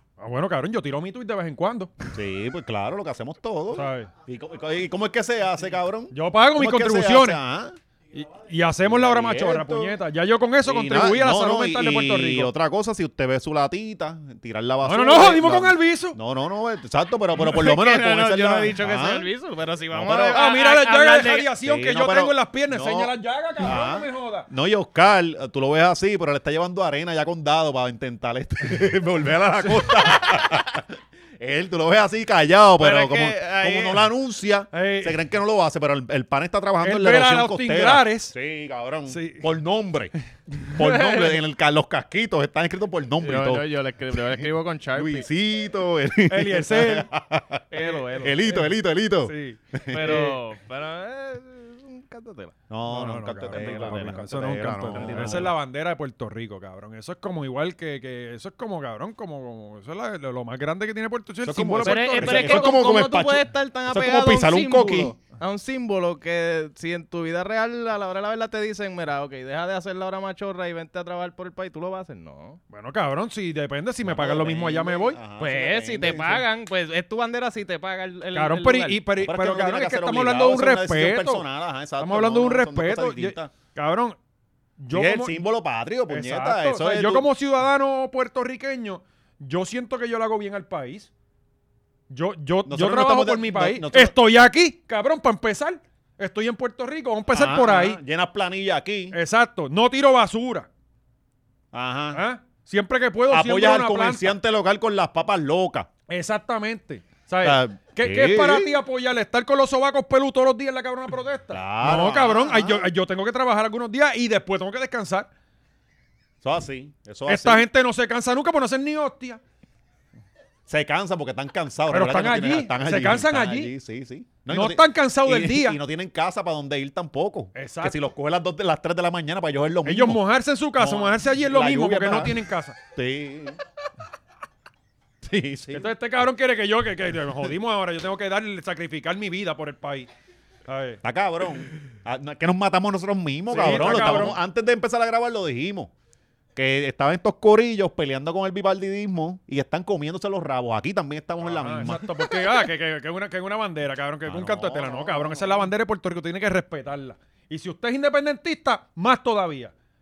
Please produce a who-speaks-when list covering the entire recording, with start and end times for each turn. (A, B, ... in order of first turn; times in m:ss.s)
0:00.2-0:01.9 A
0:02.1-0:07.8 B
0:03.7-0:04.1 A
0:06.1-0:07.4 A
0:08.1-0:12.5 A
0:08.8-0:10.0 B
0:10.6-0:19.3 B
0:14.8-0:16.2 A
0:17.3-0:21.5 C
0:19.9-0:20.4 B
0:20.3-0:24.5 A
0:21.6-0:40.1 B
0:32.8-0:34.1 C
0:34.7-0:35.2 A
0:36.8-0:38.3 A
0:39.1-0:39.5 A
0:40.5-0:40.8 A
0:40.7-0:47.6 B
0:40.8-0:41.4 C
0:43.2-0:45.3 C
0:46.3-0:47.1 A
0:47.7-0:48.6 C
0:47.8-0:48.7 A
0:48.2-0:50.3 B
0:49.2-0:50.4 A
0:49.9-0:52.6 C
0:52.7-0:55.5 B
0:52.9-1:02.7 A
0:53.5-0:54.3 C
0:54.9-0:55.5 C
1:01.4-1:05.1 B
1:01.8-1:12.6 C
1:12.7-1:15.2 A
1:14.0-1:16.4 B
1:15.4-1:19.0 C
1:18.3-1:21.4 A
1:19.2-1:23.5 B
1:22.0-1:24.2 A
1:24.8-1:25.4 A
1:24.9-1:27.3 B
1:26.1-1:31.1 A
1:32.1-1:38.0 A
1:32.6-1:34.2 B
1:37.3-1:39.2 B
1:39.1-1:40.7 A
1:41.7-1:42.2 B
1:42.1-1:44.3 A
1:43.3-1:45.9 B
1:46.1-1:55.3 A
1:47.4-1:48.8 B
1:51.5-1:52.9 B
1:56.4-1:57.7 B
1:57.3-1:59.4 A
2:00.7-2:10.2 B
2:01.9-2:03.7 A
2:04.5-2:05.8 A
2:07.6-2:08.0 A
2:09.8-2:12.8 A
2:10.8-2:12.4 B
2:12.9-2:13.6 B
2:15.2-2:15.9 B
2:15.7-2:20.1 A
2:20.7-2:21.0 A
2:21.0-2:25.9 B
2:23.5-2:24.4 A
2:26.6-2:32.6 B
2:31.4-2:39.7 A
2:34.3-2:35.7 B